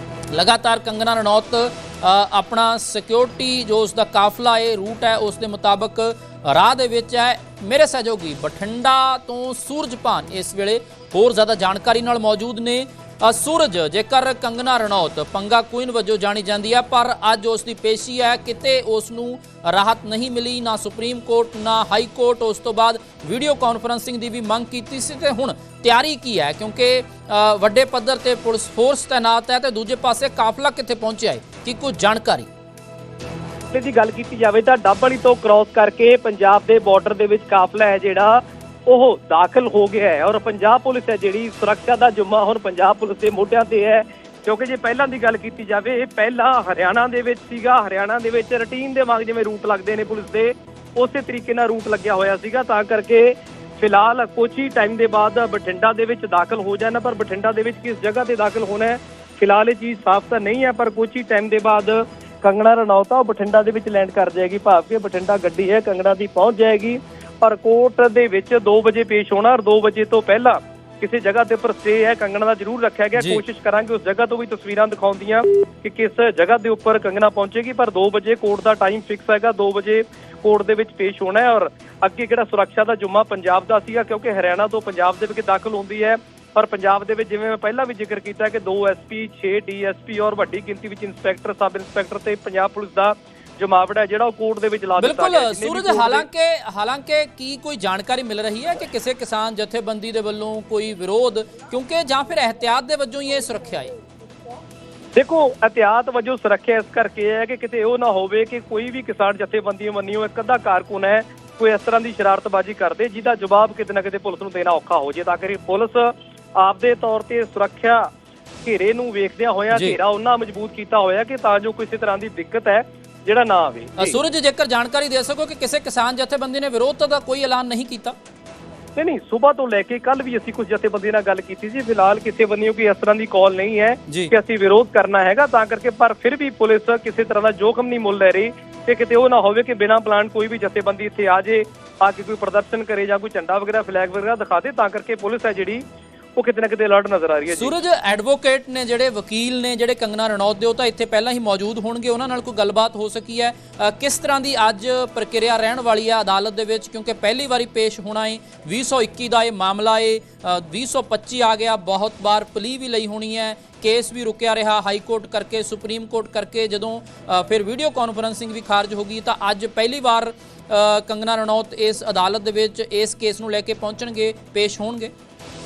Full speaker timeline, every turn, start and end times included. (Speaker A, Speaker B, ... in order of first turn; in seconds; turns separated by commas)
Speaker A: 0.3-32.5, Speaker B: 33.7-96.3, Speaker A: 95.0-103.9, Speaker B: 105.2-118.1, Speaker B: 118.6-124.2, Speaker A: 119.7-120.0, Speaker A: 124.0-128.2, Speaker B: 129.0-145.8, Speaker A: 134.1-134.3, Speaker B: 146.4-147.8, Speaker A: 147.5-175.1